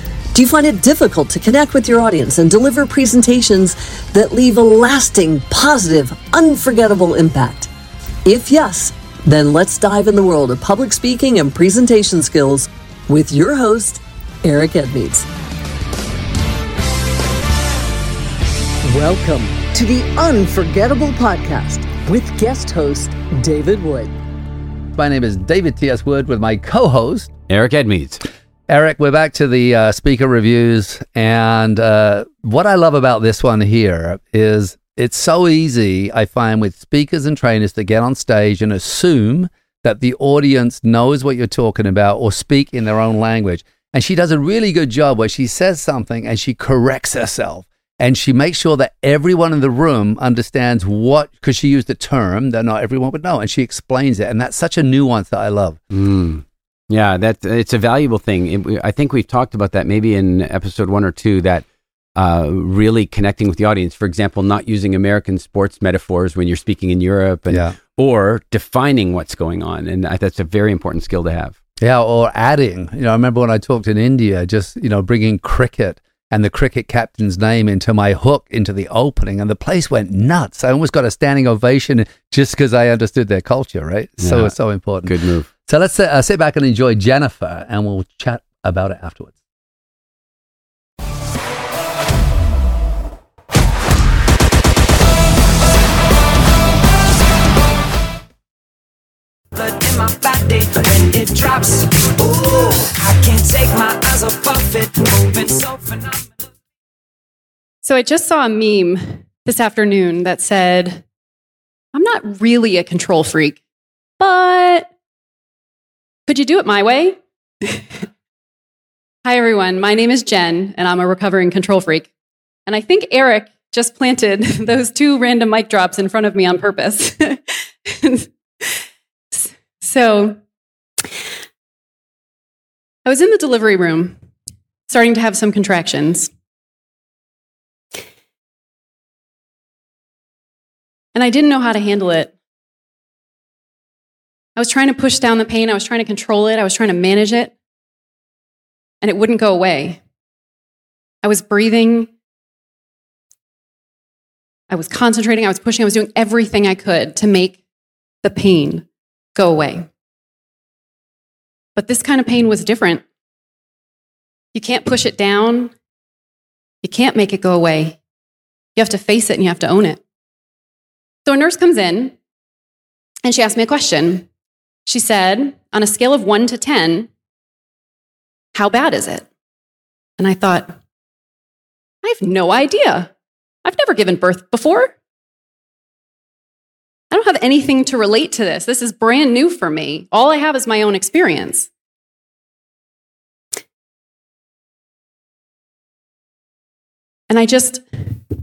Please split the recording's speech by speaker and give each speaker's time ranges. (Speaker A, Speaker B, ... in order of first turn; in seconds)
Speaker A: 0.3-7.7, 8.3-15.2, 18.9-24.1
Speaker B: 24.9-27.3, 28.7-55.8, 67.5-67.8, 71.8-85.1, 85.7-89.4
Speaker C: 27.5-28.2, 55.9-61.6, 62.2-71.5, 84.2-85.5
Speaker D: 99.6-106.3
Speaker E: 107.8-111.0, 111.9-113.6, 114.2-114.9, 116.3-117.9, 119.2-122.1, 122.7-128.8, 129.3-130.4, 133.1-134.2, 134.9-136.3, 141.2-142.3, 144.6-147.5, 149.0-150.0, 151.2-152.1, 154.7-157.6, 158.2-159.9, 161.8-163.0, 164.5-165.7, 166.8-168.0, 168.8-170.0, 171.2-172.2, 173.2-174.3, 174.9-177.1, 178.6-179.3, 180.2-180.8, 182.0-183.1, 183.7-184.9, 187.1-191.7, 197.3-198.1